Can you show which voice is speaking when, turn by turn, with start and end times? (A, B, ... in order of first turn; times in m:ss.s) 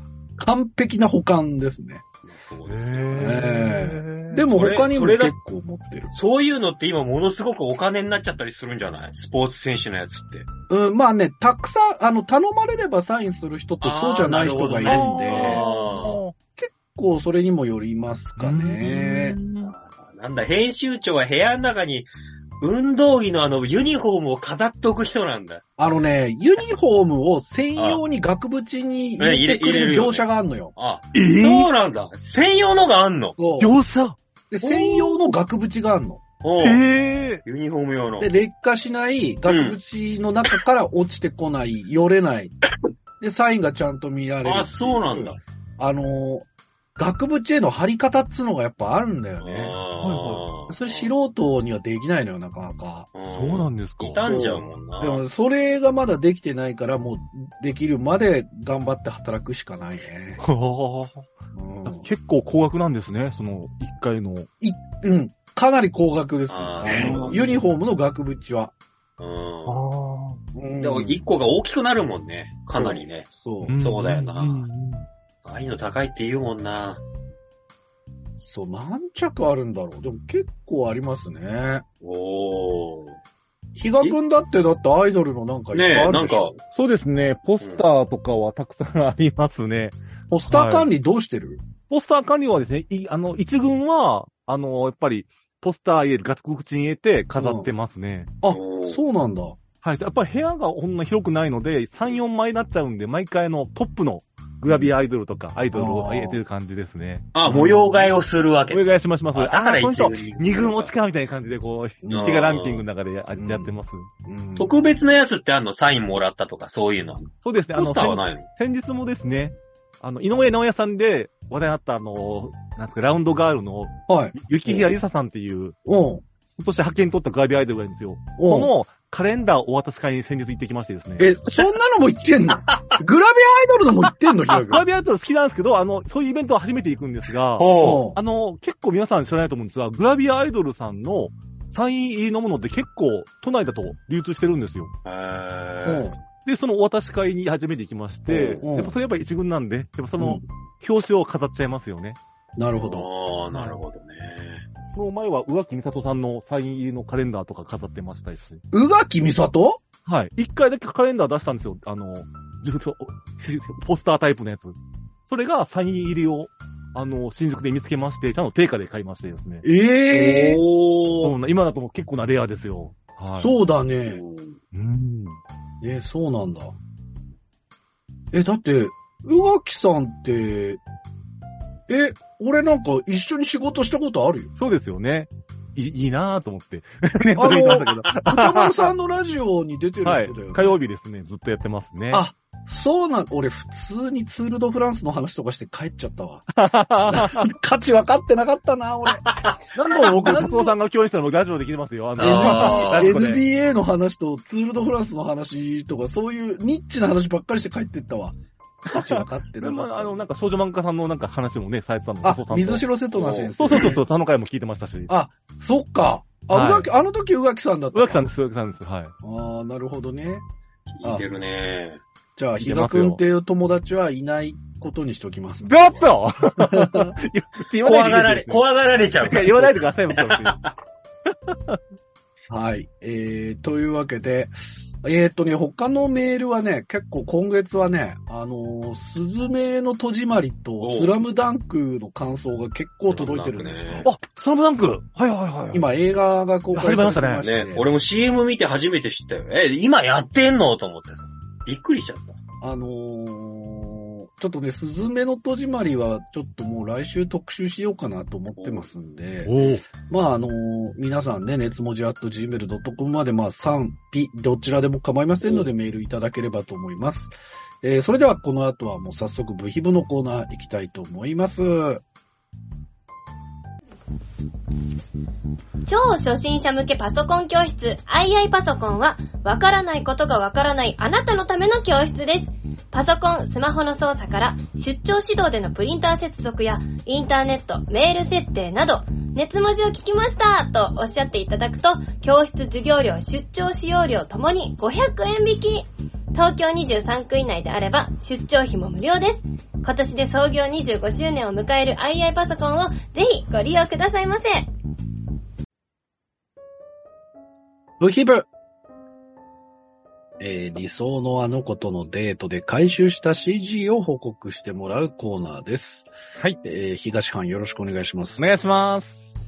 0:00.4-0:02.0 A
0:02.2-0:03.3 B
0:02.6-0:04.4 C
0:03.1-0:06.1 A
0:04.5-0:05.3 B
0:06.1-0:10.5 B
0:10.7-0:15.6 A
0:13.8-0:16.2 B
0:14.7-0:16.3 C
0:16.6-0:19.4 A
0:18.4-0:19.7 C
0:19.6-0:22.1 B
0:22.6-0:25.6 B
0:25.8-0:30.7 A
0:27.8-0:28.0 B
0:29.2-0:33.4 B
0:31.1-0:31.7 C
0:33.4-0:33.7 A
0:33.6-0:35.3 C
0:34.5-0:36.2 A
0:36.4-0:36.8 B
0:36.6-0:37.4 C
0:37.4-0:38.3 B
0:38.2-0:42.6 A
0:39.4-0:39.8 B
0:43.2-0:49.7 A
0:44.4-0:45.4 B
0:49.4-0:51.1 B
0:50.0-0:50.4 C
0:50.7-0:53.1 A
0:53.1-0:55.2 B
0:53.3-0:54.2 C
0:54.2-1:00.4 A
1:00.4-1:01.3 C
1:01.5-1:02.1 A
1:01.8-1:04.5 C
1:04.6-1:08.7 A
1:06.5-1:07.4 B
1:06.8-1:07.6 C
1:09.2-1:09.8 B
1:09.7-1:10.4 C
1:10.5-1:11.2 A
1:10.8-1:14.7 B
1:12.8-1:13.8 A
1:13.6-1:15.0 C
1:15.4-1:17.0 B
1:18.4-1:21.8 A
1:22.0-1:23.2 B
1:23.8-1:26.6 A
1:25.7-1:26.6 B
1:26.7-1:30.9 C
1:30.3-1:31.6 A
1:31.9-1:38.3 C
1:37.4-1:37.7 A
1:38.4-1:39.6 A
1:38.5-1:39.0 B
1:39.8-1:48.1 C
1:45.7-1:46.4 A
1:47.3-1:50.9 B
1:48.7-1:54.1 C
1:52.0-1:52.4 A
1:52.1-1:52.8 B
1:53.3-1:53.7 A
1:54.2-1:54.7 A
1:54.6-1:58.4 B
1:57.4-2:05.8 C
2:04.1-2:04.3 A
2:05.8-2:06.2 A
2:06.6-2:11.3 C
2:08.4-2:08.7 A
2:11.2-2:14.8 A
2:12.7-2:13.0 B
2:14.5-2:24.9 C
2:17.6-2:18.0 B
2:17.8-2:18.2 A
2:25.0-2:26.1 B
2:25.8-2:26.1 A
2:26.4-2:32.2 C
2:28.3-2:28.9 A
2:32.6-2:33.0 A
2:32.8-2:34.6 B
2:34.9-2:38.6 C
2:38.7-2:39.8 A
2:40.0-2:44.8 C
2:45.3-2:49.6 C
2:49.6-2:50.6 A
2:50.1-2:51.3 B
2:51.2-2:53.5 C
2:53.4-2:54.2 A
2:54.0-2:54.6 B
2:54.7-2:55.4 C
2:55.8-2:56.7 A
2:58.3-3:00.8 A
3:01.9-3:04.5 A
3:04.6-3:08.9 C
3:07.4-3:10.8 A
3:10.0-3:12.2 C
3:12.1-3:16.5 A
3:16.5-3:17.5 C
3:17.0-3:19.4 A
3:19.7-3:23.4 C
3:19.9-3:20.7 A
3:22.2-3:23.1 B
3:22.2-3:28.4 A
3:28.9-3:30.2 A
3:28.9-3:32.8 C
3:32.2-3:34.0 A
3:33.1-3:33.9 B
3:33.6-3:35.1 C
3:35.1-3:38.3 A
3:36.5-3:36.9 C
3:37.9-3:39.1 C
3:39.2-3:40.4 A
3:40.9-3:42.0 B
3:42.4-3:46.0 A
3:42.6-3:43.2 C
3:45.6-3:48.6 C
3:46.6-3:47.1 A
3:47.8-3:50.7 B
3:49.2-3:50.6 C
3:51.5-3:51.8 C
3:52.5-4:04.1 A
4:00.8-4:01.2 B
4:03.1-4:04.1 B
4:04.0-4:05.8 C
4:05.7-4:07.9 A
4:06.7-4:07.4 C
4:07.4-4:12.4 B
4:12.6-4:19.5 A
4:18.6-4:18.9 B
4:19.4-4:19.8 C
4:20.0-4:32.0 A
4:35.8-5:04.7 D
5:08.0-5:08.5 A
5:10.4-5:16.1 A
5:16.6-5:18.6 A
5:18.4-5:19.2 C